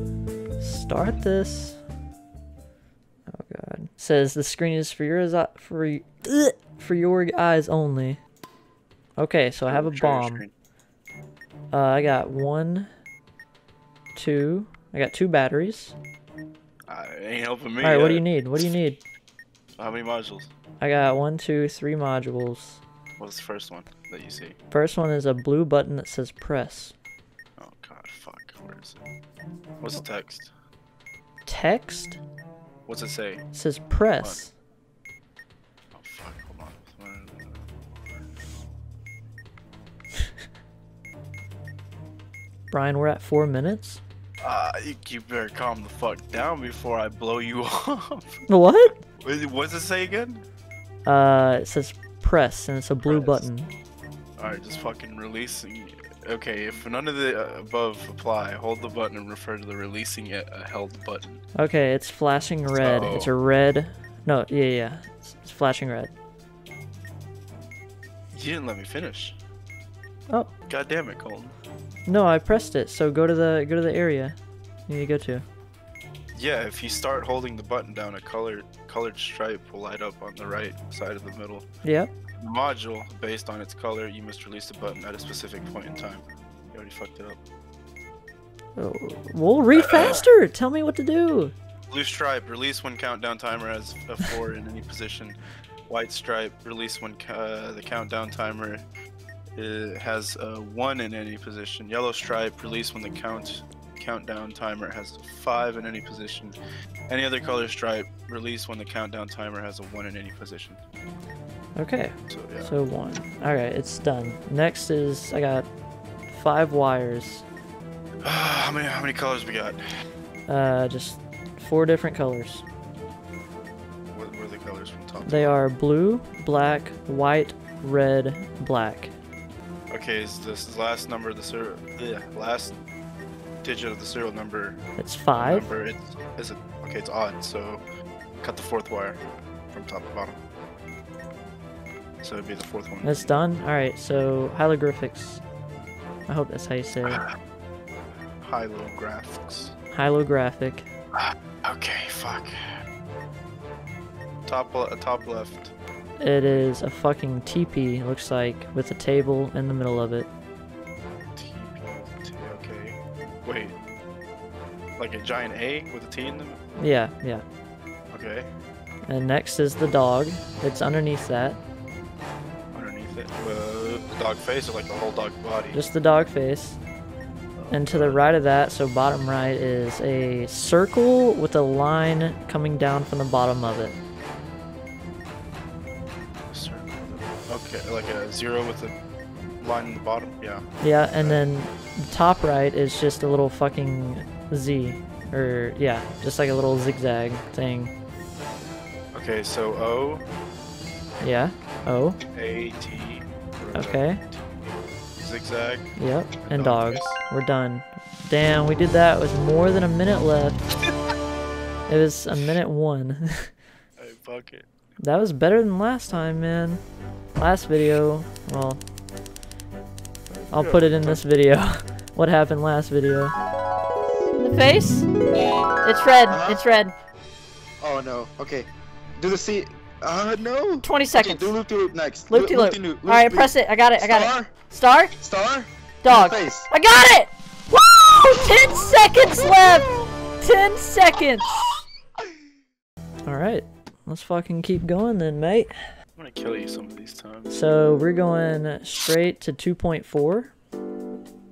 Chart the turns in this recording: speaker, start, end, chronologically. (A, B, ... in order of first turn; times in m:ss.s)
0:00.6-0:01.8 A
0:03.3-0:08.2 A
0:09.2-0:10.4 A
0:09.7-0:10.5 B
0:11.7-0:12.9 A
0:14.2-0:15.9 A
0:16.9-0:18.2 B
0:17.8-0:19.0 A
0:19.8-0:20.5 B
0:20.8-0:22.8 A
0:23.2-0:24.6 B
0:24.7-0:26.9 A
0:27.6-0:29.0 B
0:29.8-0:30.5 B
0:31.4-0:32.2 A
0:32.9-0:33.5 B
0:33.5-0:34.5 A
0:35.9-0:37.7 B
0:42.7-0:44.0 A
0:44.4-0:50.4 B
0:48.5-0:49.0 A
0:51.0-0:53.7 A
0:53.0-0:53.4 B
0:54.4-1:01.4 B
1:01.6-1:06.1 A
1:02.8-1:03.3 B
1:08.3-1:09.4 B
1:10.7-1:11.5 B
1:12.0-1:14.4 A
1:14.9-1:15.4 A
1:16.3-1:21.6 B
1:21.8-1:22.1 A
1:22.4-1:27.4 B
1:28.8-1:31.5 A
1:29.8-1:30.2 B
1:31.9-1:38.8 B
1:39.5-1:46.6 B
1:47.1-1:50.8 B
1:51.8-1:55.7 A
1:52.3-1:52.7 B
1:56.3-1:57.4 A
1:58.2-1:59.8 B
2:00.5-2:02.6 A
2:04.1-2:05.6 B
2:05.2-2:09.1 A
2:09.9-2:12.7 B
2:13.6-2:14.8 B
2:15.0-2:15.7 A
2:15.3-2:17.8 B
2:18.4-2:19.2 B
2:19.7-2:20.4 B
2:22.2-2:23.3 B
2:23.0-2:25.4 A
2:26.3-2:27.2 A
2:27.0-2:27.3 B
2:28.4-2:29.7 B
2:29.9-2:30.8 A
2:31.1-2:32.6 B
2:34.4-2:35.7 B
2:36.2-2:40.3 A
2:41.4-2:43.8 B
2:45.0-2:46.6 B
2:46.8-2:47.4 A
2:48.1-2:48.5 B
2:49.1-2:51.6 A
2:52.7-2:55.8 B
2:55.7-2:56.8 A
2:57.6-2:58.3 B
2:57.7-3:04.0 A
3:06.5-3:08.9 B
3:09.6-3:10.6 B
3:10.8-3:17.9 A
3:11.2-3:11.4 B
3:19.1-3:20.2 B
3:21.2-3:22.2 A
3:22.3-3:25.9 B
3:23.7-3:24.2 A
3:26.0-3:30.6 A
3:26.4-3:27.2 B
3:31.9-3:33.5 A
3:34.0-3:34.7 B
3:35.0-3:36.8 A
3:37.4-3:38.8 A
3:40.4-3:41.2 B
3:40.5-3:43.3 A
3:44.4-3:45.1 A
3:45.8-3:46.9 A
3:46.3-3:46.6 C
3:47.8-3:54.5 C
3:50.8-3:51.5 A
3:52.3-3:55.1 A
3:55.2-3:56.7 C
3:56.0-4:01.6 A
4:03.2-4:05.7 A
4:06.2-4:08.0 B
4:07.5-4:10.5 A